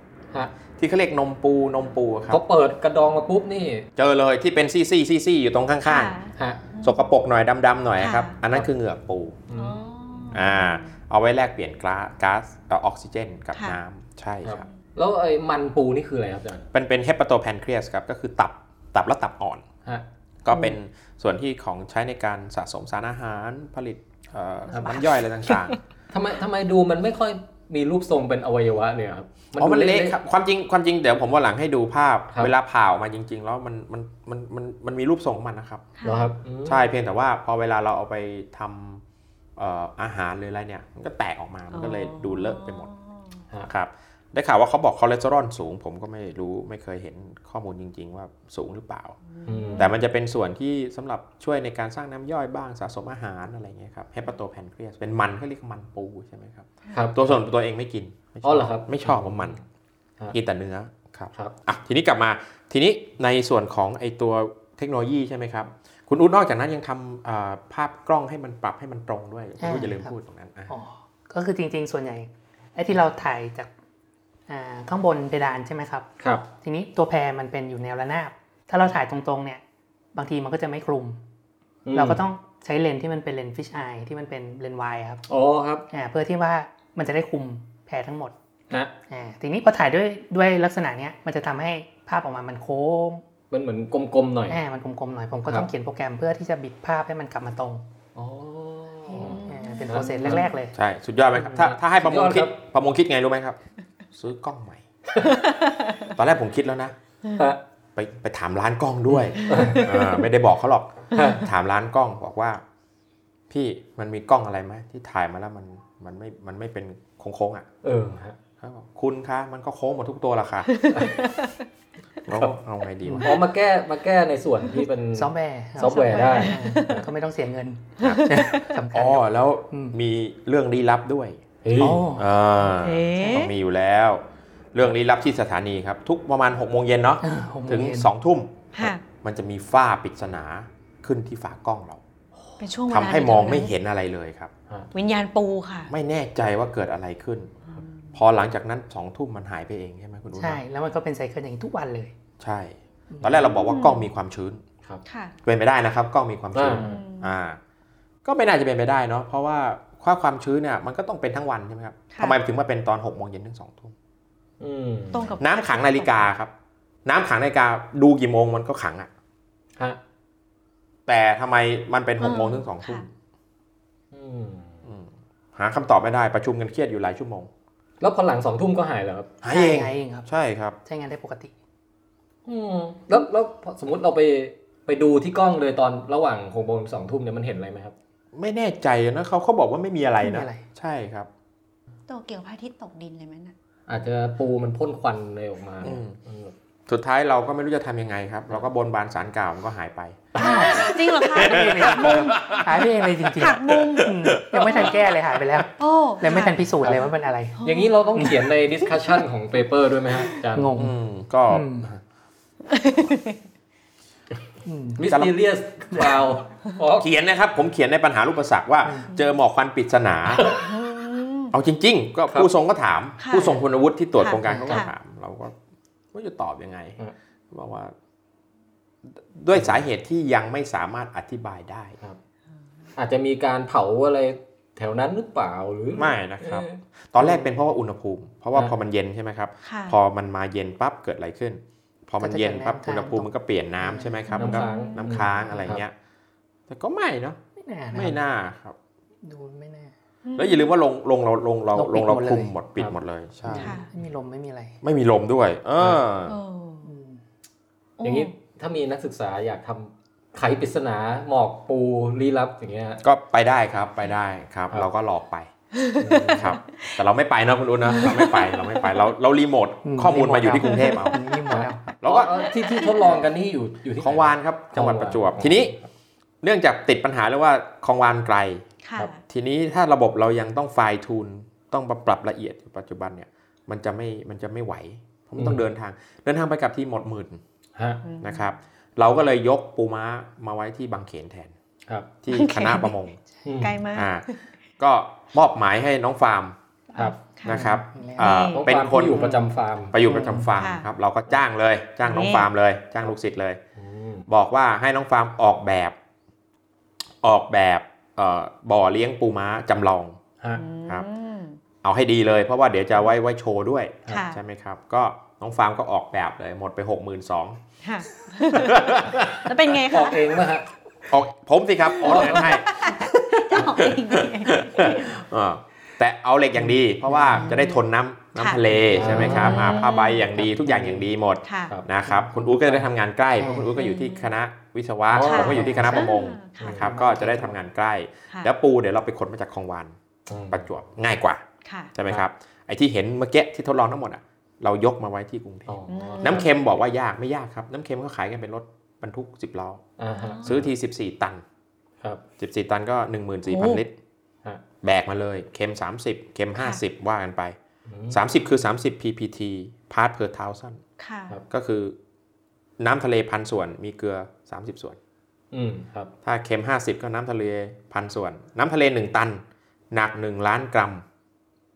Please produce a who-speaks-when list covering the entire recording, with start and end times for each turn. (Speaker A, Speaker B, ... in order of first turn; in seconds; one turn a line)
Speaker A: 0.8-2.4
Speaker B: 2.3-3.9
Speaker A: 4.0-6.2
Speaker C: 5.8-7.0
Speaker B: 6.4-6.6
Speaker A: 6.8-9.4
Speaker C: 8.0-8.3
Speaker B: 9.5-9.8
Speaker C: 9.6-10.9
Speaker A: 10.3-14.7
Speaker B: 14.4-16.7
Speaker A: 16.7-19.7
Speaker A: 20.4-25.8
Speaker B: 24.7-25.1
Speaker B: 26.1-30.2
Speaker A: 29.6-35.9
Speaker C: 36.0-36.3
Speaker B: 36.0-36.9
Speaker A: 36.6-39.0
Speaker A: 39.6-42.9
Speaker C: 41.7-43.4
Speaker A: 43.7-49.2
Speaker C: 49.3-49.9
Speaker B: 49.5-49.9
Speaker A: 49.8-59.6
Speaker B: 56.9-57.3
Speaker B: 58.4-59.6
Speaker A: 60.3-70.7
Speaker D: 69.6-70.1
Speaker D: 70.7-73.7
Speaker D: 74.5-76.1
Speaker B: 76.2-76.5
Speaker D: 76.6-79.6
Speaker D: 80.2-81.2
Speaker B: 81.9-82.2
Speaker D: 81.9-85.2
Speaker B: 85.3-85.9
Speaker D: 85.9-88.3
Speaker D: 89.1-93.2
Speaker B: 93.5-94.6
Speaker D: 94.5-97.8
Speaker B: 98.2-100.5
Speaker C: 99.1-100.5
Speaker D: 99.1-100.8
Speaker A: 100.7-103.6
Speaker B: 101.4-102.5
Speaker A: 104.1-104.8
Speaker C: 105.5-106.1
Speaker A: 106.1-107.0
Speaker B: 107.3-107.6
Speaker A: 108.0-112.6
Speaker C: 109.4-110.0
Speaker B: 109.5-109.9
Speaker B: 111.1-111.4
Speaker A: 113.5-117.7
Speaker B: 117.8-118.4
Speaker A: 118.6-120.8
Speaker C: 120.7-121.5
Speaker B: 120.9-121.2
Speaker A: 122.2-123.4
Speaker B: 123.2-127.0
Speaker D: 125.2-130.0
Speaker C: 126.1-127.0
Speaker A: 128.0-128.3
Speaker C: 128.0-128.5
Speaker A: 128.9-142.0
Speaker B: 131.6-132.1
Speaker D: 131.8-132.3
Speaker C: 132.7-133.5
Speaker D: 137.2-138.1
Speaker C: 138.7-139.0
Speaker C: 142.6-143.7
Speaker A: 142.9-144.5
Speaker C: 144.9-145.9
Speaker A: 145.9-147.6
Speaker A: 148.1-150.6
Speaker D: 150.4-152.1
Speaker A: 152.4-154.6
Speaker D: 153.1-153.5
Speaker C: 153.7-154.1
Speaker C: 155.1-155.3
Speaker A: 155.4-157.6
Speaker B: 156.6-157.0
Speaker C: 156.8-157.3
Speaker A: 158.2-163.9
Speaker C: 162.1-162.4
Speaker B: 164.6-165.3
Speaker C: 165.1-166.3
Speaker A: 165.4-166.5
Speaker A: 167.1-169.1
Speaker A: 171.1-173.1
Speaker C: 172.2-173.1
Speaker B: 174.1-174.8
Speaker A: 174.8-177.5
Speaker B: 178.0-179.3
Speaker A: 179.4-180.8
Speaker D: 179.5-180.3
Speaker D: 180.8-181.5
Speaker B: 182.5-187.9
Speaker A: 188.3-191.3
Speaker D: 190.2-190.6
Speaker C: 192.1-193.5
Speaker B: 193.9-196.5
Speaker A: 195.8-196.2
Speaker A: 196.9-205.1
Speaker C: 200.4-202.6
Speaker D: 200.4-207.6
Speaker C: 203.4-204.1
Speaker C: 205.8-206.7
Speaker B: 206.8-207.1
Speaker C: 207.6-208.3
Speaker B: 207.6-210.7
Speaker D: 208.2-208.5
Speaker D: 210.5-210.9
Speaker A: 210.8-212.0
Speaker D: 211.5-211.9
Speaker C: 212.7-213.4
Speaker D: 214.7-215.1
Speaker B: 215.0-217.1
Speaker A: 215.1-215.3
Speaker A: 217.0-220.6
Speaker B: 220.3-220.6
Speaker C: 220.6-221.5
Speaker A: 221.5-225.6
Speaker C: 223.2-223.6
Speaker C: 224.2-224.9
Speaker D: 224.5-224.8
Speaker A: 226.1-227.0
Speaker A: 227.5-227.9
Speaker A: 229.1-232.0
Speaker B: 229.5-229.8
Speaker B: 233.0-236.8
Speaker A: 235.9-245.9
Speaker C: 239.6-240.0
Speaker D: 242.2-244.4
Speaker C: 244.3-245.5
Speaker B: 244.4-245.8
Speaker A: 246.7-247.4
Speaker D: 247.6-248.2
Speaker A: 247.9-248.8
Speaker D: 249.2-249.9
Speaker C: 250.2-250.7
Speaker A: 250.4-253.8
Speaker D: 251.8-252.5
Speaker B: 252.8-253.7
Speaker D: 253.5-254.8
Speaker C: 253.6-253.9
Speaker A: 254.8-256.4
Speaker C: 256.3-256.9
Speaker D: 256.8-257.2
Speaker C: 258.0-258.3
Speaker B: 258.0-263.0
Speaker A: 263.0-265.5
Speaker C: 265.7-267.0
Speaker B: 266.0-266.6
Speaker A: 266.3-271.2
Speaker C: 267.9-269.1
Speaker D: 269.9-271.9
Speaker C: 270.6-271.1
Speaker B: 271.5-275.9
Speaker A: 272.0-272.4
Speaker A: 274.0-275.7
Speaker A: 276.4-278.6
Speaker C: 278.8-279.2
Speaker A: 279.3-287.4
Speaker B: 285.4-285.6
Speaker B: 287.8-288.0
Speaker C: 288.0-288.5
Speaker A: 288.2-291.5
Speaker A: 292.2-293.2
Speaker C: 292.3-292.9
Speaker B: 293.4-293.8
Speaker C: 293.6-294.4
Speaker A: 293.9-294.3
Speaker A: 294.8-296.6
Speaker C: 296.9-298.6
Speaker A: 297.4-299.4
Speaker D: 297.4-298.3
Speaker B: 298.5-299.9
Speaker D: 299.1-299.5
Speaker A: 299.9-303.6
Speaker D: 300.0-300.5
Speaker C: 300.6-300.9
Speaker C: 302.1-302.5
Speaker B: 303.8-304.3
Speaker A: 304.3-305.9
Speaker A: 307.2-310.2
Speaker C: 310.6-311.6
Speaker A: 311.8-317.6
Speaker C: 314.1-314.4
Speaker C: 317.8-320.4
Speaker A: 318.5-319.5
Speaker B: 319.9-320.7
Speaker A: 321.1-339.9
Speaker B: 322.0-322.6
Speaker C: 322.0-325.1
Speaker D: 326.6-327.7
Speaker C: 327.4-327.7
Speaker C: 328.4-330.3
Speaker B: 328.9-329.9
Speaker D: 329.0-329.7
Speaker B: 330.4-331.0
Speaker C: 331.5-331.8
Speaker D: 332.1-332.7
Speaker D: 333.4-333.7
Speaker C: 333.8-334.3
Speaker B: 335.1-335.9
Speaker C: 335.2-336.9
Speaker D: 335.5-336.2
Speaker D: 336.7-337.6
Speaker B: 340.3-340.7
Speaker A: 340.5-349.8
Speaker C: 341.6-341.9
Speaker B: 345.7-346.5
Speaker C: 345.9-346.5
Speaker B: 350.0-350.7
Speaker C: 350.2-350.6
Speaker A: 350.4-351.4
Speaker A: 352.4-353.9
Speaker C: 353.5-353.8
Speaker A: 354.8-357.6
Speaker B: 357.9-358.2
Speaker A: 358.1-360.8
Speaker C: 361.0-361.4
Speaker A: 361.5-362.0
Speaker A: 362.8-365.0
Speaker B: 365.5-366.1
Speaker A: 366.2-371.0